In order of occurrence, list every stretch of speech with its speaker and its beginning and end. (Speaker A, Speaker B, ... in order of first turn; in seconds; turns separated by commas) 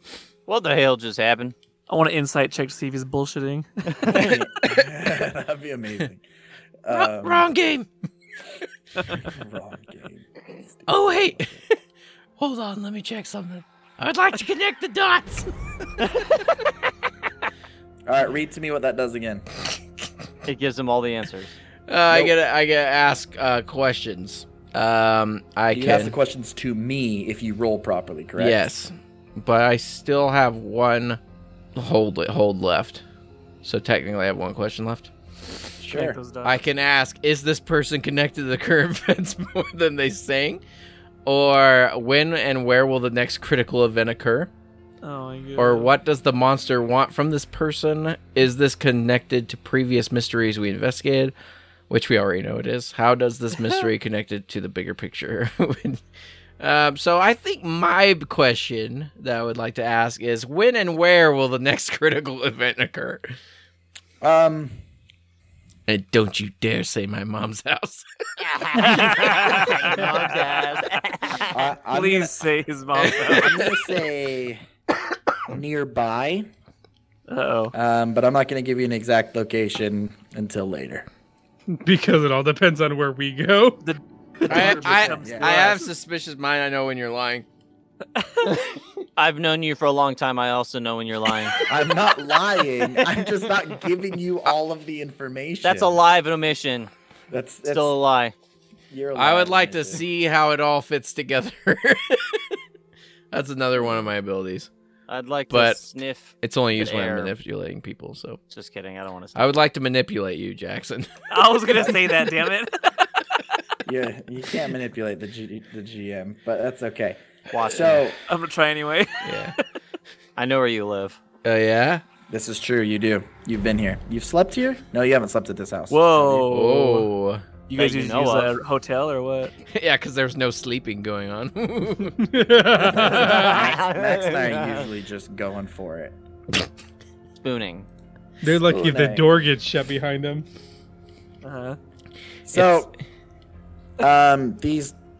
Speaker A: 0.5-1.5, Speaker B: 1.9-4.3, Speaker C: 4.1-6.2, Speaker C: 6.8-7.5, Speaker D: 6.9-7.8, Speaker C: 9.2-10.3, Speaker C: 10.9-11.5, Speaker D: 10.9-11.4, Speaker D: 12.4-15.5, Speaker C: 18.1-19.4, Speaker A: 20.4-21.5, Speaker E: 21.9-26.1, Speaker C: 22.1-22.3, Speaker C: 25.7-28.7, Speaker E: 28.4-31.2, Speaker E: 31.8-33.0, Speaker E: 33.6-35.1, Speaker C: 35.8-36.2, Speaker B: 35.8-36.6, Speaker E: 36.4-40.6, Speaker E: 41.2-44.5, Speaker B: 45.0-45.9, Speaker E: 45.6-51.3, Speaker E: 51.9-56.0, Speaker E: 56.6-63.2, Speaker C: 64.2-64.7, Speaker E: 65.9-68.1, Speaker A: 68.5-71.6, Speaker B: 68.8-70.3, Speaker C: 71.5-72.3, Speaker B: 71.9-73.6, Speaker E: 73.0-73.7, Speaker C: 73.1-74.6, Speaker C: 75.5-76.5, Speaker B: 77.3-77.7, Speaker C: 77.7-81.0, Speaker F: 81.7-83.8, Speaker B: 83.8-85.9, Speaker C: 84.5-85.7, Speaker E: 84.5-87.5, Speaker B: 88.2-88.5, Speaker A: 89.2-91.6, Speaker C: 91.7-96.0, Speaker A: 95.6-96.9, Speaker C: 97.3-97.9, Speaker A: 97.6-98.3, Speaker C: 98.9-100.0, Speaker E: 99.2-102.4, Speaker E: 103.3-104.7, Speaker A: 105.1-107.3, Speaker E: 105.5-105.8, Speaker E: 106.4-108.4, Speaker A: 108.5-109.5, Speaker E: 109.3-111.1, Speaker B: 111.3-112.7, Speaker C: 111.8-112.0, Speaker C: 113.8-118.2, Speaker A: 117.5-118.0, Speaker B: 118.3-119.5, Speaker E: 119.2-119.5, Speaker A: 120.3-121.2, Speaker E: 121.4-122.0, Speaker C: 122.3-126.6, Speaker B: 125.9-127.1, Speaker E: 126.5-127.4, Speaker B: 127.7-129.5, Speaker A: 127.8-128.5, Speaker E: 129.7-132.2, Speaker F: 132.2-133.7, Speaker C: 132.8-136.1, Speaker A: 132.9-134.9, Speaker A: 137.4-137.9, Speaker F: 138.4-140.4, Speaker C: 138.6-139.3, Speaker B: 141.4-141.8, Speaker C: 142.5-142.9, Speaker E: 142.5-142.8, Speaker C: 144.0-144.9